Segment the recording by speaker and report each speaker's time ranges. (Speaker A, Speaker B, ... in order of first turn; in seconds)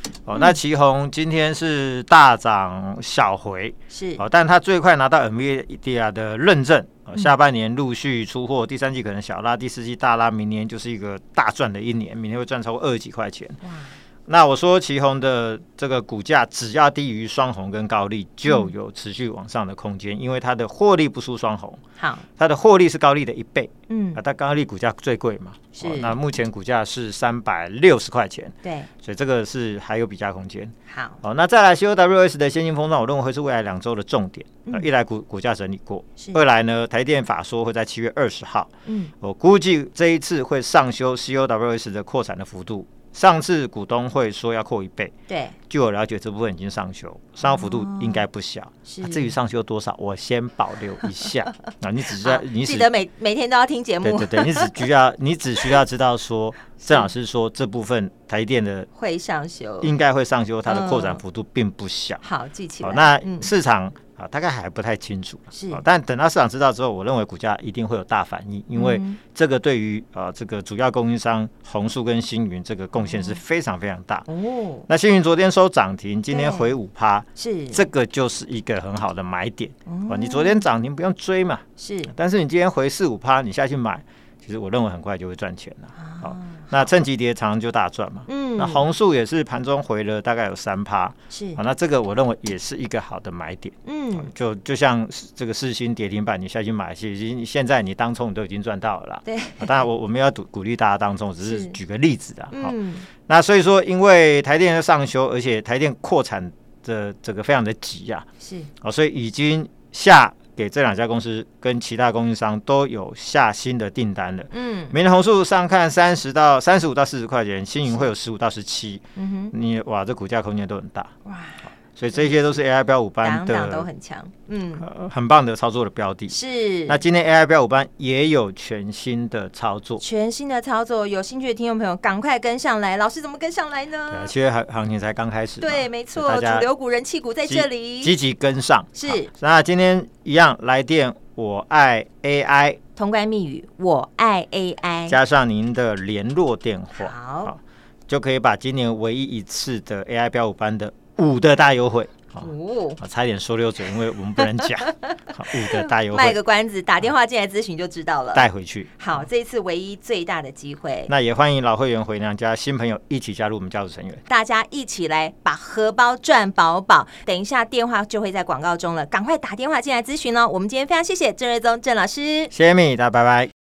Speaker A: 0.2-13.6, 14.3-21.8, 22.4-45.1, 45.7-52.9, 54.0-58.9, 59.8-62.2, 62.8-74.3, 74.9-108.3, 108.8-121.1, 121.9-123.9, 124.8-130.0, 134.1-136.7, 137.4-142.8, 145.1-156.4, 158.3-159.3, 161.1-164.2, 172.5-173.5
Speaker B: 3.9-4.2, 13.6-14.0, 18.5-18.7, 22.0-22.2, 23.9-24.2, 25.7-26.2, 28.6-28.9, 30.9-31.2, 38.8-39.1, 45.3-45.6, 47.4-48.2, 48.8-49.3, 52.2-54.8, 56.8-57.1, 58.9-59.9, 60.6-61.2, 62.2-63.5, 65.5-65.8, 68.7-69.2, 73.0-73.4, 74.3-74.8, 76.3-76.7, 77.3-77.9, 79.9-80.6, 81.8-82.1, 86.0-86.7, 88.3-88.8, 91.3-91.6, 93.8-94.3, 99.2-99.8, 101.4-101.8, 102.5-103.1, 108.4-108.7, 114.5-114.9, 119.2-119.5, 121.2-122.3, 123.2-124.8, 126.3-127.0, 130.0-134.3, 135.6-138.1, 138.9-139.3, 142.9-145.2, 147.0-147.5, 152.4-153.0, 155.8-158.5, 159.0-161.1, 164.3-172.5